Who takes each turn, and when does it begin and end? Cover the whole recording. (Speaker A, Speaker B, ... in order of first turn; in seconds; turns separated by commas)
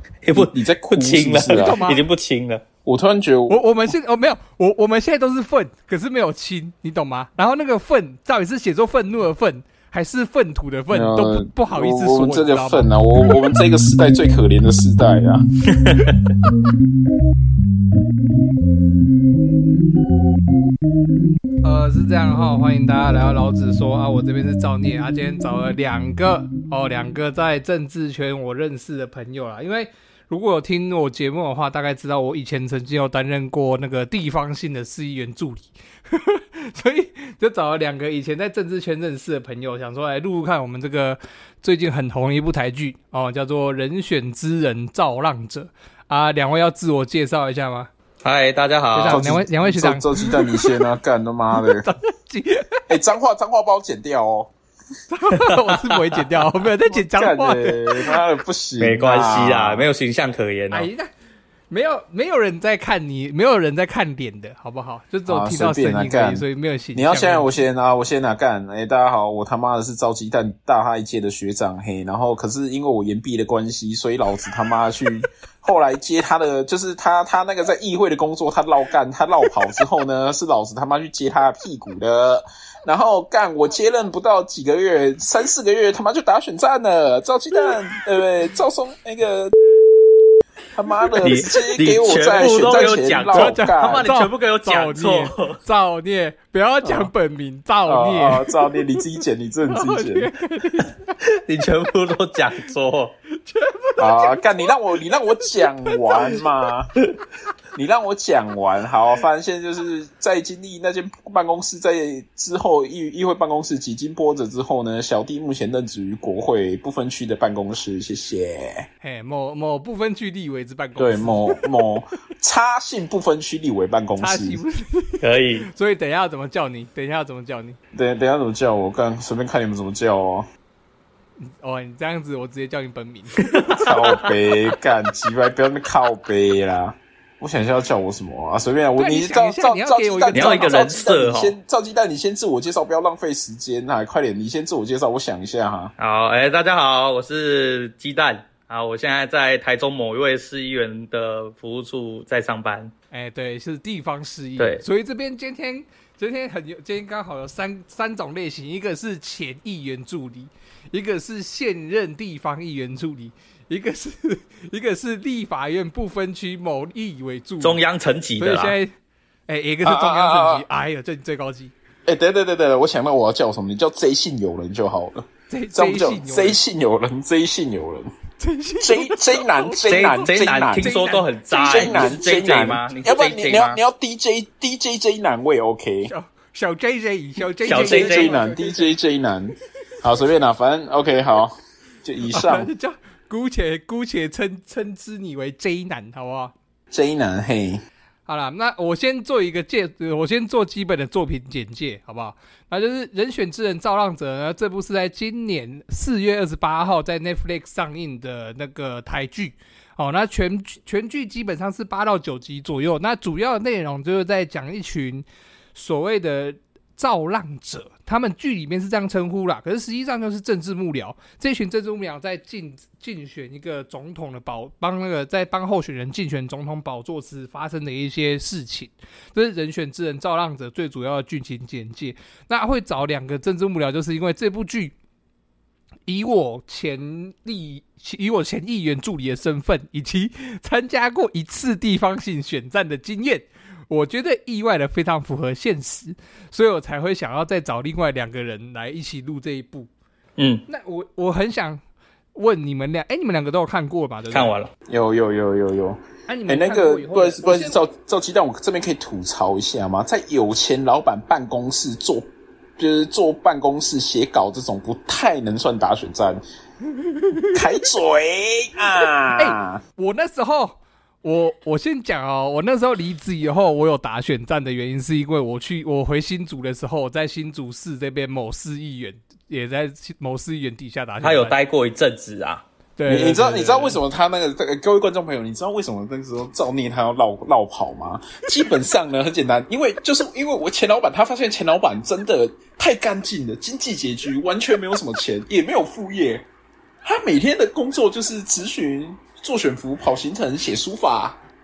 Speaker A: 0.2-2.6, Speaker B: 0.3-1.8, Speaker C: 1.5-2.0, Speaker B: 2.8-3.6, Speaker C: 3.5-12.9, Speaker B: 10.9-15.4, Speaker A: 15.7-16.2, Speaker C: 21.6-47.9, Speaker A: 48.2-49.3, Speaker C: 48.9-50.9, Speaker B: 49.1-51.9, Speaker C: 51.6-52.8, Speaker B: 52.9-54.5, Speaker C: 55.1-58.2, Speaker A: 55.3-56.5, Speaker B: 56.9-59.9, Speaker A: 58.8-60.9, Speaker C: 60.7-61.1, Speaker C: 61.7-67.5, Speaker B: 65.3-66.4, Speaker B: 67.0-89.5, Speaker B: 90.7-94.1, Speaker A: 91.2-95.6, Speaker C: 93.2-99.0, Speaker B: 96.8-97.1, Speaker B: 97.8-100.3, Speaker C: 99.7-101.0, Speaker A: 100.8-103.1, Speaker C: 103.4-106.3, Speaker B: 104.0-106.9, Speaker B: 107.7-118.9, Speaker C: 119.0-121.7, Speaker B: 121.0-124.6, Speaker C: 124.2-127.8, Speaker A: 125.2-125.7, Speaker B: 127.9-130.5, Speaker C: 131.4-133.8, Speaker A: 133.5-134.1, Speaker B: 133.8-145.9, Speaker C: 139.0-140.8, Speaker A: 140.3-141.6, Speaker A: 146.0-152.9, Speaker C: 153.1-167.8, Speaker A: 154.6-154.8, Speaker A: 167.6-168.8, Speaker C: 168.4-168.9, Speaker C: 169.5-171.7, Speaker B: 169.8-170.6, Speaker B: 172.1-178.1, Speaker C: 175.5-176.6, Speaker C: 178.4-182.2, Speaker B: 178.8-180.9, Speaker A: 179.8-183.8, Speaker B: 181.6-186.1, Speaker C: 186.1-188.9, Speaker A: 187.6-188.4, Speaker B: 187.7-192.7, Speaker C: 192.3-196.5, Speaker B: 196.9-197.8, Speaker C: 198.2-234.9, Speaker C: 236.1-249.9, Speaker A: 250.4-250.6, Speaker C: 250.7-251.8, Speaker C: 252.3-254.5, Speaker A: 254.3-254.7, Speaker B: 254.9-262.2, Speaker C: 256.3-257.8, Speaker B: 262.8-266.4, Speaker C: 267.1-267.6, Speaker B: 267.5-269.8, Speaker C: 269.3-281.6, Speaker A: 281.2-282.6, Speaker C: 283.0-284.0, Speaker B: 283.1-296.4, Speaker B: 297.0-301.4